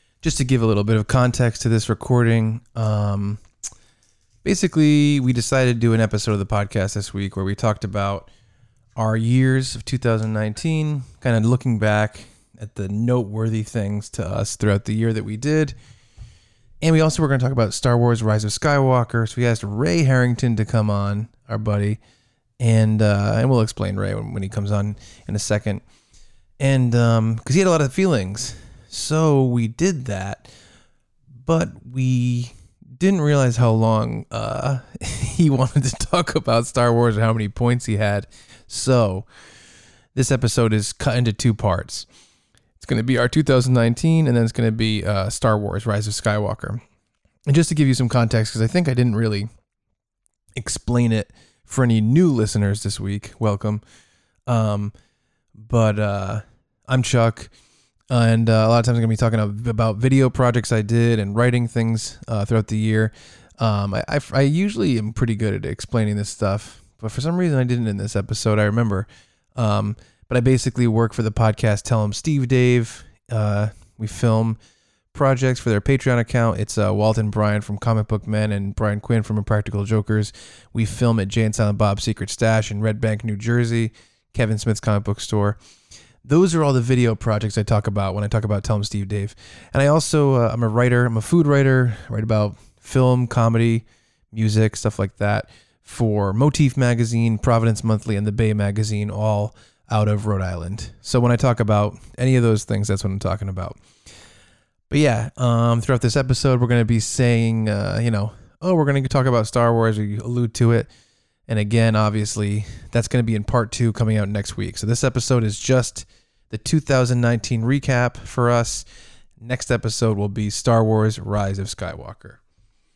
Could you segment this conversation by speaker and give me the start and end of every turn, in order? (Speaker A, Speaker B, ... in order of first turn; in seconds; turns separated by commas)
Speaker A: 0.2-3.4, Speaker A: 4.4-8.3, Speaker A: 9.0-15.7, Speaker A: 16.8-22.0, Speaker A: 22.6-25.8, Speaker A: 26.6-30.5, Speaker A: 31.4-39.3, Speaker A: 40.1-42.1, Speaker A: 42.8-46.8, Speaker A: 47.5-49.5, Speaker A: 50.5-53.8, Speaker A: 54.5-54.9, Speaker A: 55.6-57.5, Speaker A: 58.1-74.6, Speaker A: 75.1-85.6, Speaker A: 86.2-103.8, Speaker A: 104.9-110.9, Speaker A: 111.5-118.8, Speaker A: 119.4-122.4